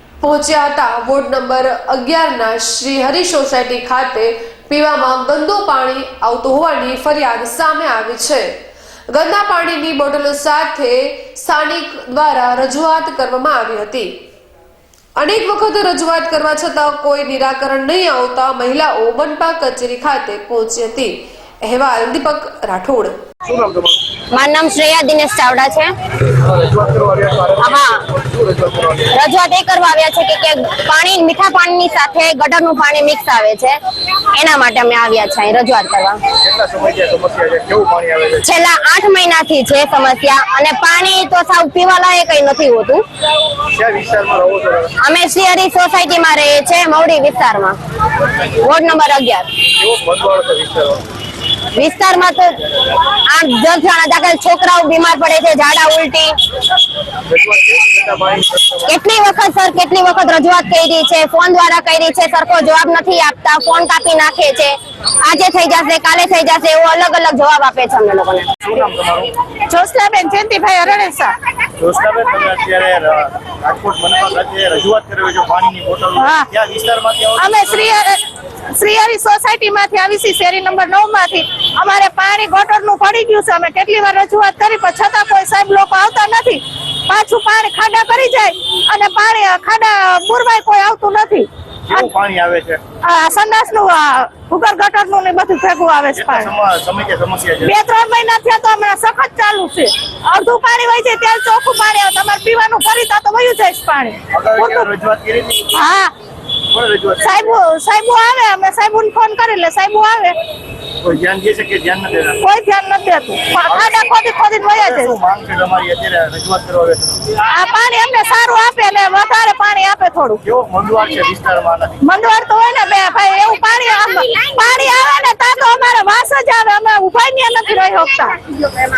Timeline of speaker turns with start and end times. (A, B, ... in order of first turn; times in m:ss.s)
0:00.2-0:08.6 A
0:09.1-0:14.2 A
0:15.2-0:23.2 A
0:23.5-0:24.0 B
0:24.3-0:25.9 C
0:26.4-0:29.1 B
0:27.6-0:28.0 C
0:29.1-0:33.8 C
0:34.4-0:36.2 C
0:36.4-0:38.5 B
0:38.4-0:43.0 C
0:43.7-0:44.9 B
0:45.0-0:47.8 C
0:48.5-0:49.5 C
0:49.7-0:51.0 B
0:51.7-0:52.6 C
0:53.3-0:56.3 C
0:57.3-0:58.9 B
0:58.9-1:08.5 C
1:08.6-1:09.3 B
1:09.7-1:11.4 D
1:11.8-1:17.9 B
1:16.2-1:16.5 D
1:17.4-1:18.2 D
1:18.8-1:32.1 D
1:31.9-1:32.8 B
1:33.0-1:36.5 D
1:36.1-1:37.8 B
1:37.6-1:44.9 D
1:44.3-1:45.7 B
1:45.7-1:46.1 D
1:46.7-1:47.5 B
1:47.2-1:50.4 D
1:51.0-1:52.4 B
1:52.4-1:55.2 D
1:53.7-1:54.1 B
1:54.8-1:57.3 B
1:57.5-2:00.4 D
2:00.4-2:02.0 B
2:02.0-2:08.4 D